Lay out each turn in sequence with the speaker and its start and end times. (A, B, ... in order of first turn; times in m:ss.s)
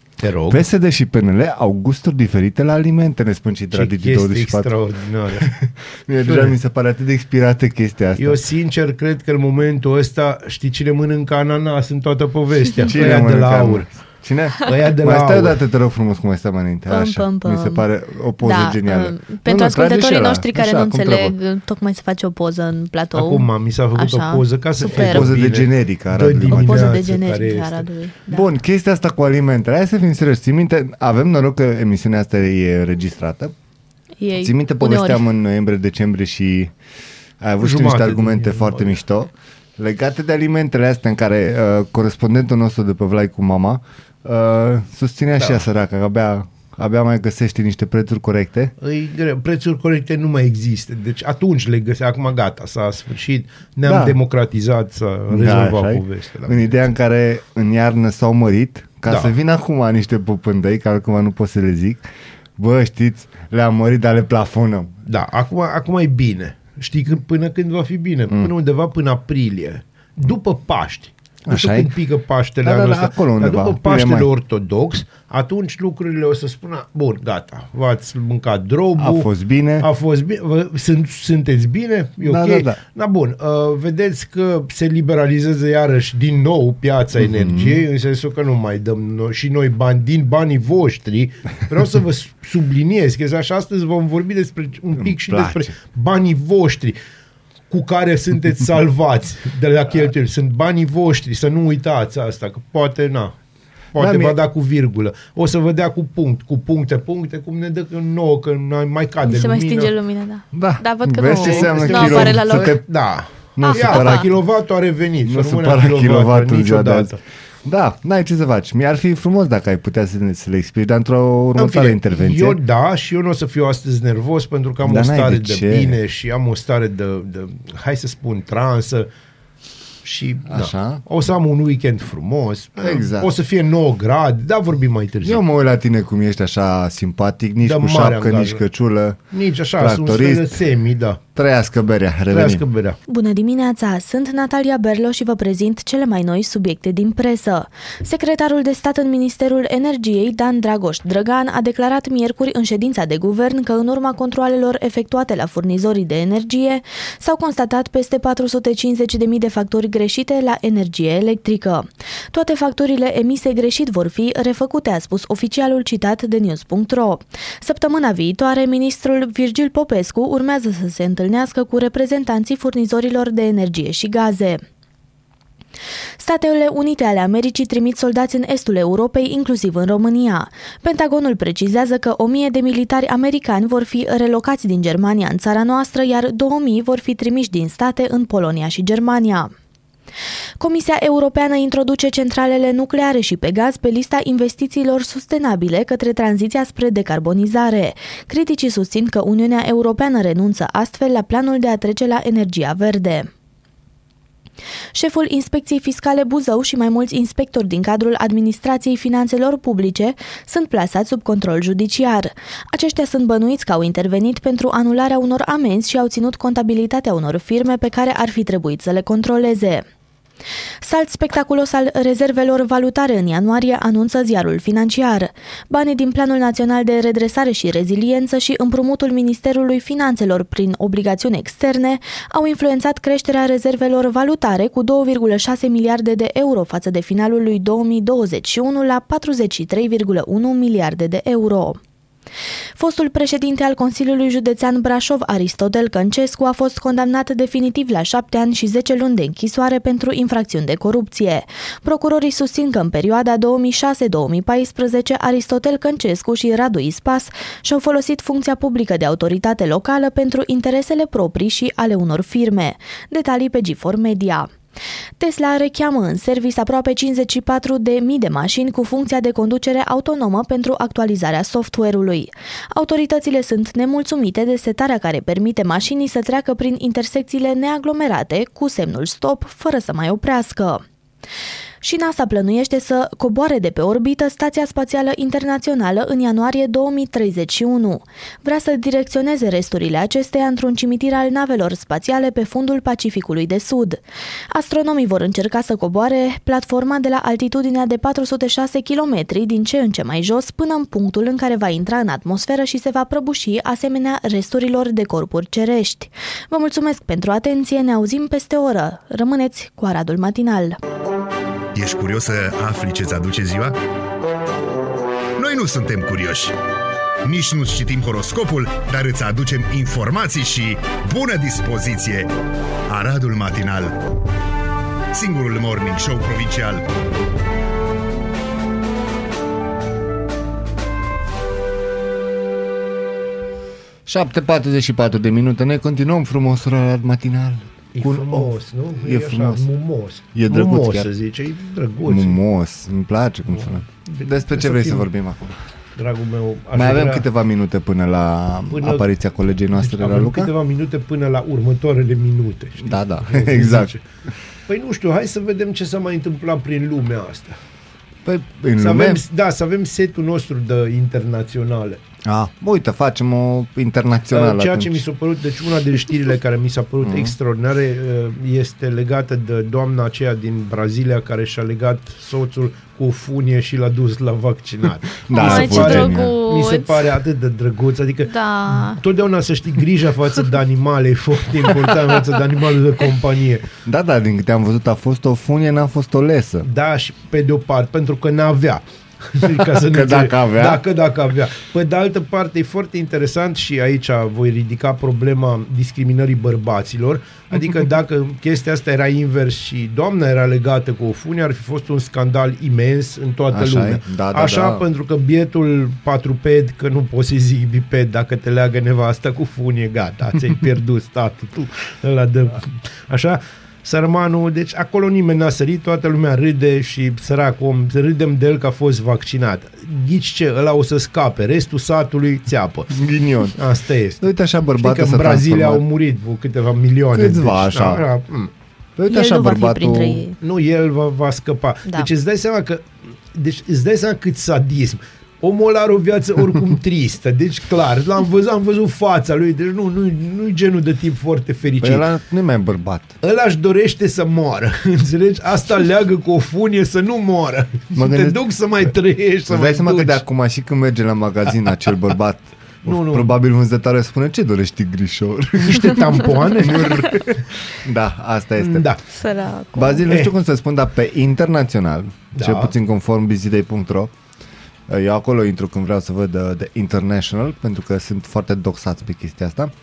0:00.2-0:00.6 A
0:00.5-0:04.7 B
0:03.7-0:05.5 A
0:05.4-0:08.4 B
0:06.2-0:06.5 A
0:08.2-0:13.9 A
0:12.8-0:21.3 B
0:14.6-0:15.6 A
0:16.9-0:17.8 C
0:18.4-0:25.3 C
0:23.1-0:27.8 A
0:24.9-0:27.0 B
0:26.5-0:28.5 C
0:28.3-0:33.5 B
0:34.2-0:35.2 C
0:34.4-0:36.7 B
0:37.4-0:48.7 B
0:37.6-0:39.0 A
0:48.8-0:56.8 A
0:53.8-0:54.2 B
0:55.3-1:02.0 B
0:59.1-0:59.3 A
1:02.6-1:05.0 B
1:05.1-1:19.3 A
1:11.4-1:11.9 B
1:12.6-1:14.3 B
1:19.0-1:19.9 B
1:19.8-1:37.0 A
1:22.2-1:22.8 B
1:27.2-1:27.8 B
1:35.0-1:35.7 B
1:37.7-1:43.4 A
1:43.9-1:49.9 A
1:44.0-1:44.4 B
1:49.2-1:52.7 C
1:50.5-1:52.8 B
1:51.3-1:57.2 A
1:53.6-1:54.3 B
1:53.6-1:54.2 C
1:55.2-1:57.1 B
1:57.6-2:02.6 B
2:01.6-2:09.1 A
2:04.8-2:06.0 B
2:10.0-2:15.4 A
2:10.5-2:11.0 B
2:12.8-2:13.3 B
2:15.2-2:19.2 B
2:17.6-2:18.6 A
2:19.3-2:21.2 A
2:19.8-2:20.6 B
2:21.3-2:22.6 B
2:22.3-2:23.0 A
2:23.1-2:54.6 C
2:56.2-3:09.5 C
3:10.6-3:23.3 C
3:24.9-3:39.8 C
3:40.8-4:01.8 C
4:02.8-4:24.5 C
4:25.2-4:40.8 C
4:41.8-5:10.8 C
5:11.7-5:13.8 D
5:15.4-5:16.6 D
5:17.2-5:22.3 D
5:22.9-5:24.1 D
5:25.1-5:26.9 D
5:34.0-5:39.6 B
5:37.9-5:42.4 A
5:40.3-5:41.1 B
5:42.0-5:45.6 B
5:43.5-5:45.1 A
5:46.0-5:47.2 A
5:46.7-5:50.5 B
5:48.7-5:49.0 A
5:49.7-5:54.0 A
5:52.8-5:53.9 B
5:54.7-5:57.6 A
5:58.2-5:59.2 B
5:58.8-6:02.0 A
6:02.2-6:05.0 B
6:04.3-6:23.6 A
6:07.0-6:07.3 B
6:15.2-6:16.4 B
6:15.3-6:17.2 C
6:18.2-6:19.0 C
6:23.8-6:26.7 B
6:26.6-7:02.9 A
6:29.4-6:30.8 B
6:43.5-6:44.8 B
7:02.9-7:03.6 B
7:03.6-7:08.5 A
7:04.2-7:05.8 B
7:07.1-7:08.0 B
7:09.0-7:10.2 B
7:09.1-7:10.4 C
7:10.4-7:22.0 A
7:21.8-7:23.1 B
7:23.2-7:30.2 A
7:27.9-7:28.4 B
7:29.5-7:38.9 B
7:32.8-7:33.3 A
7:35.6-7:37.4 A
7:38.6-7:39.0 A
7:39.1-7:40.0 C
7:39.7-7:44.1 B
7:42.4-7:42.7 A
7:44.9-7:49.7 B